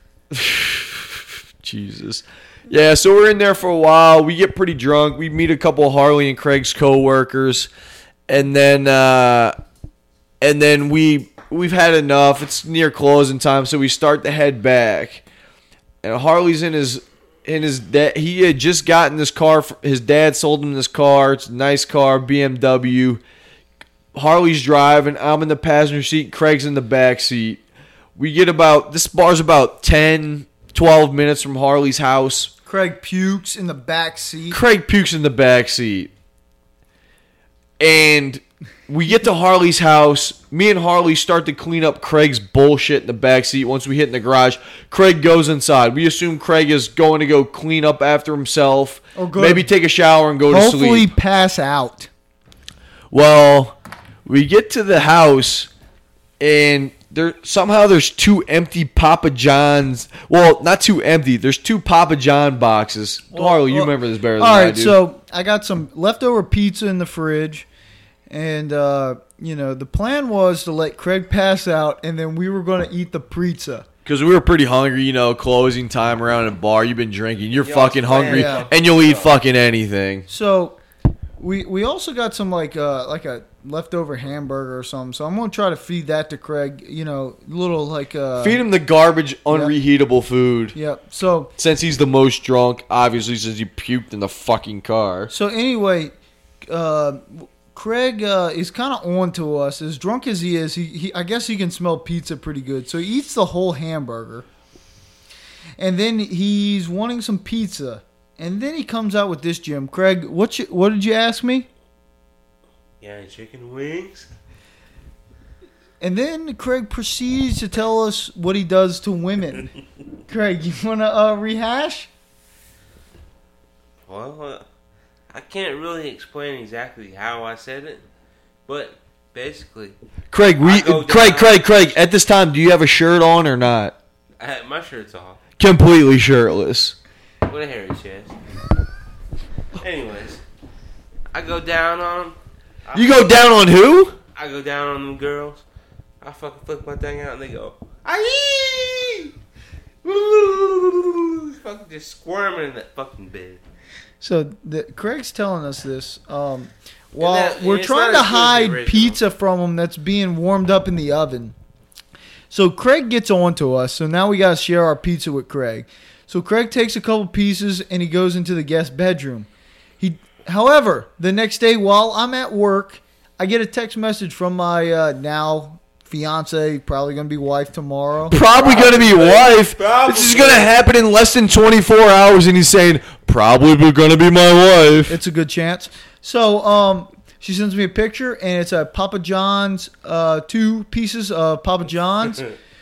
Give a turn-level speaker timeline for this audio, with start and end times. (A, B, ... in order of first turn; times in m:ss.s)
0:00.3-0:07.7 A
0:08.3-0:09.6 A
0:10.4-0:15.2 A
0:16.0-0:23.2 A
0:24.1-0:27.6 A
0:28.2-0:32.5 A
0:32.6-0:34.6 B
0:34.5-0:36.1 A
0:37.8-0:51.1 A
0:49.2-0:49.7 B
0:50.5-0:52.1 B
0:53.1-0:55.7 A
0:56.4-1:05.0 A
1:03.3-1:07.7 B
1:08.3-1:13.9 B
1:14.0-1:20.3 A
1:17.6-1:19.4 C
1:18.3-1:18.6 B
1:20.3-1:20.8 B
1:21.4-1:28.6 B
1:28.4-1:30.8 A
1:29.5-1:29.8 B
1:30.7-1:31.5 B
1:31.6-1:35.3 A
1:35.3-1:36.2 B
1:36.7-1:44.4 B
1:45.8-1:51.7 B
1:53.0-1:54.3 C
1:56.0-1:59.7 B
2:00.3-2:02.1 B
2:04.1-2:04.6 C
2:05.3-2:08.0 C
2:08.7-2:10.0 C
2:10.3-2:14.0 A
2:10.6-2:12.0 C
2:14.4-2:15.4 C
2:15.6-2:17.0 A
2:17.5-2:18.4 C
2:19.8-2:20.4 C
2:21.3-2:23.5 C
2:22.9-2:24.2 A
2:24.4-2:25.6 C
2:26.2-2:29.2 C
2:28.1-2:28.9 B
2:30.1-2:31.1 B
2:31.3-2:33.6 C
2:34.2-2:41.6 B
2:37.2-2:39.2 C
2:42.5-2:49.5 B
2:50.0-2:58.4 B
2:58.3-3:05.2 A
2:58.5-3:00.8 C
3:05.1-3:12.5 B